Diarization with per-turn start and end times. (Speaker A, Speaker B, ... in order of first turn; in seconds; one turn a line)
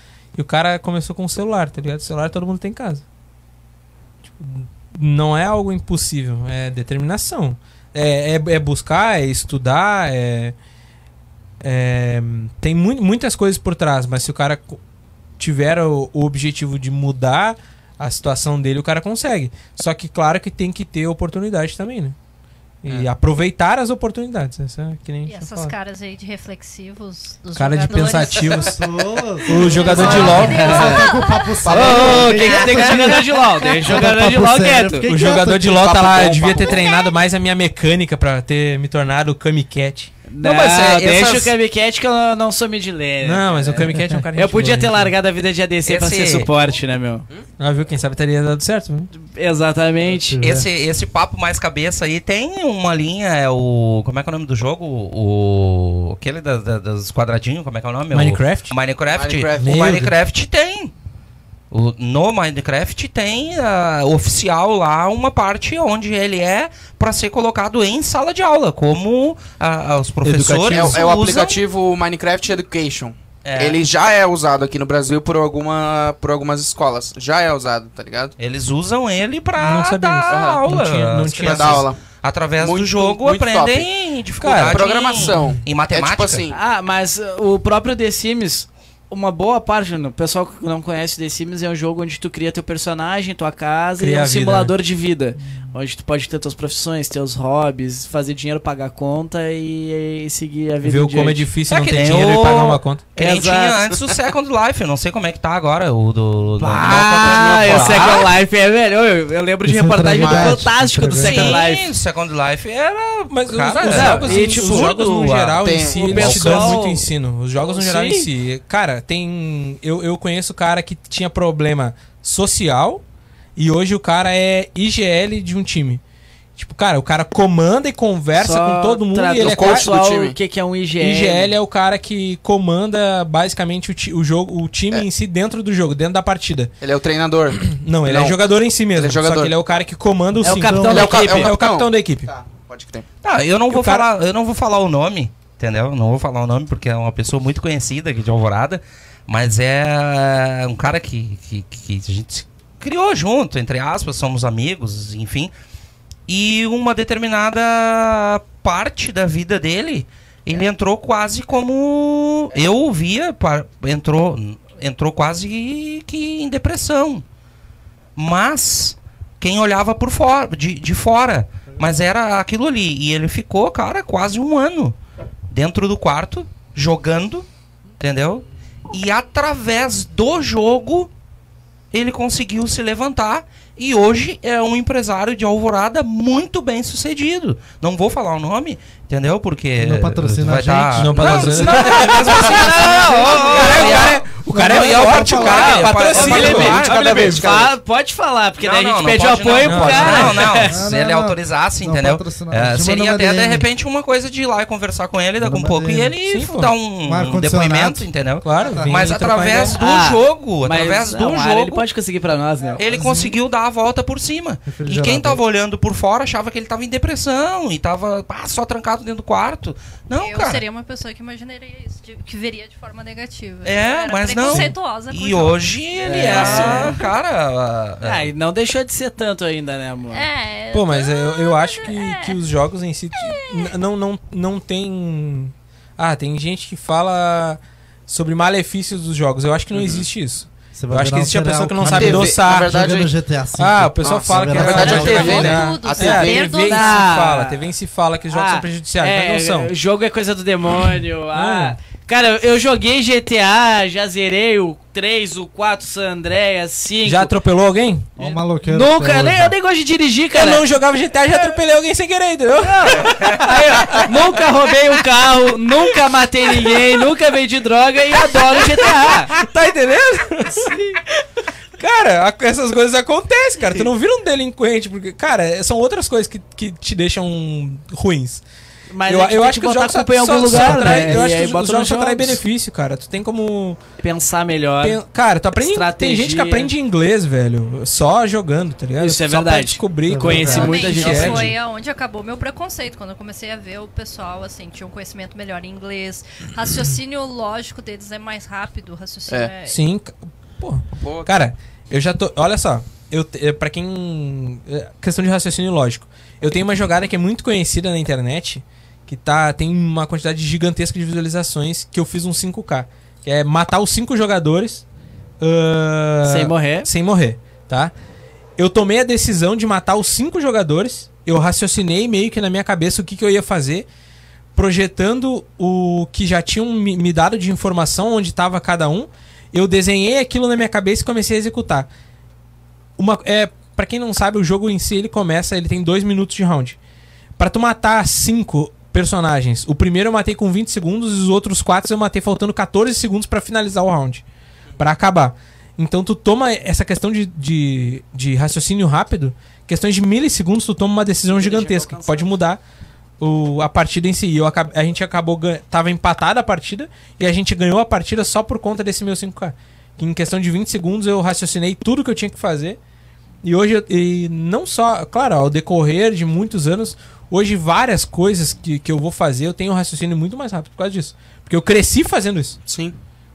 Speaker A: 0.3-3.0
Speaker A: 4.3-10.6
Speaker A: 11.6-14.8
Speaker A: 15.4-22.2
Speaker A: 22.8-25.8
Speaker B: 25.3-28.8
Speaker A: 27.6-28.8
Speaker C: 28.5-36.6
Speaker A: 29.4-30.8
Speaker B: 29.5-31.6
Speaker D: 29.8-31.1
Speaker E: 31.6-32.6
Speaker D: 31.7-35.1
Speaker B: 32.3-32.7
Speaker A: 35.1-40.1
Speaker D: 36.2-36.5
Speaker B: 36.7-37.1
Speaker D: 40.3-47.3
Speaker F: 40.4-41.5
Speaker A: 43.2-45.1
Speaker F: 45.9-46.5
Speaker A: 47.6-49.1
Speaker D: 49.1-50.4
Speaker C: 50.3-50.7
Speaker F: 50.4-60.9
Speaker A: 58.1-58.8
Speaker E: 59.1-60.1
Speaker A: 59.6-60.1
Speaker F: 61.7-71.6
Speaker A: 70.2-71.0
Speaker E: 70.6-78.3
Speaker F: 73.5-73.8
Speaker F: 78.4-86.5
Speaker A: 79.6-81.9
Speaker E: 80.3-80.7
Speaker E: 81.3-82.0
Speaker E: 82.6-83.9
Speaker A: 84.4-85.4
Speaker E: 84.7-86.5
Speaker D: 86.5-101.5
Speaker A: 94.0-94.7
Speaker A: 100.8-103.1
Speaker F: 101.7-108.3
Speaker D: 103.2-103.8
Speaker D: 106.6-111.9
Speaker E: 106.8-108.2
Speaker C: 109.7-111.6
Speaker E: 110.2-110.6
Speaker F: 111.2-115.6
Speaker A: 113.3-123.0
Speaker D: 113.8-114.9
Speaker E: 115.6-116.8
Speaker D: 115.9-117.0
Speaker D: 117.6-118.3
Speaker A: 123.6-126.0
Speaker A: 126.6-129.9
Speaker D: 128.3-131.5
Speaker E: 129.4-130.4
Speaker A: 131.0-136.7
Speaker E: 136.8-138.4
Speaker A: 137.6-142.3
Speaker E: 138.9-139.5
Speaker D: 140.4-141.5
Speaker C: 140.6-141.1
Speaker E: 140.9-143.1
Speaker F: 143.2-155.5
Speaker A: 143.7-144.1
Speaker F: 156.3-167.2
Speaker F: 168.2-175.0
Speaker F: 175.5-177.5
Speaker F: 178.0-181.1
Speaker F: 181.9-197.5
Speaker C: 189.8-191.2
Speaker A: 190.9-196.9
Speaker E: 191.2-192.3
Speaker D: 191.3-194.1
Speaker C: 194.5-195.9
Speaker D: 195.4-200.8
Speaker E: 196.2-197.8
Speaker F: 198.6-211.8
Speaker A: 199.6-200.5
Speaker C: 200.7-203.7
Speaker C: 205.4-206.1
Speaker A: 206.2-206.7
Speaker C: 207.1-209.1
Speaker A: 208.4-209.8
Speaker D: 209.8-212.8
Speaker F: 212.8-220.6
Speaker C: 212.8-213.3
Speaker C: 214.7-215.4
Speaker B: 220.2-227.0
Speaker F: 223.6-228.3
Speaker A: 224.4-224.7
Speaker D: 226.1-227.0
Speaker D: 228.0-230.3
Speaker B: 230.1-232.4
Speaker A: 230.7-242.8
Speaker B: 233.2-233.7
Speaker E: 239.8-240.0
Speaker C: 240.8-245.7
Speaker E: 241.8-243.1
Speaker A: 243.6-249.7
Speaker E: 244.0-246.6
Speaker B: 244.8-247.2
Speaker D: 246.6-247.7
Speaker D: 248.3-257.3
Speaker A: 251.3-251.8
Speaker A: 257.1-258.1
Speaker C: 258.2-259.6
Speaker D: 258.2-260.6
Speaker A: 260.4-264.1
Speaker D: 262.6-269.4
Speaker A: 268.6-271.0
Speaker A: 271.8-278.4
Speaker D: 278.9-282.4
Speaker A: 279.1-283.8
Speaker D: 284.0-285.0
Speaker A: 284.8-291.5
Speaker D: 285.6-286.7
Speaker D: 289.0-291.5
Speaker C: 290.1-290.7
Speaker B: 290.4-299.8
Speaker A: 299.7-314.9
Speaker E: 301.0-301.3
Speaker A: 315.4-317.9
Speaker D: 316.2-316.9
Speaker A: 318.6-323.9
Speaker A: 324.6-331.9
Speaker A: 333.0-336.8
Speaker A: 337.4-344.2
Speaker A: 344.8-352.6
Speaker D: 351.4-352.2
Speaker A: 353.2-362.8
Speaker A: 363.4-372.6
Speaker E: 372.7-373.0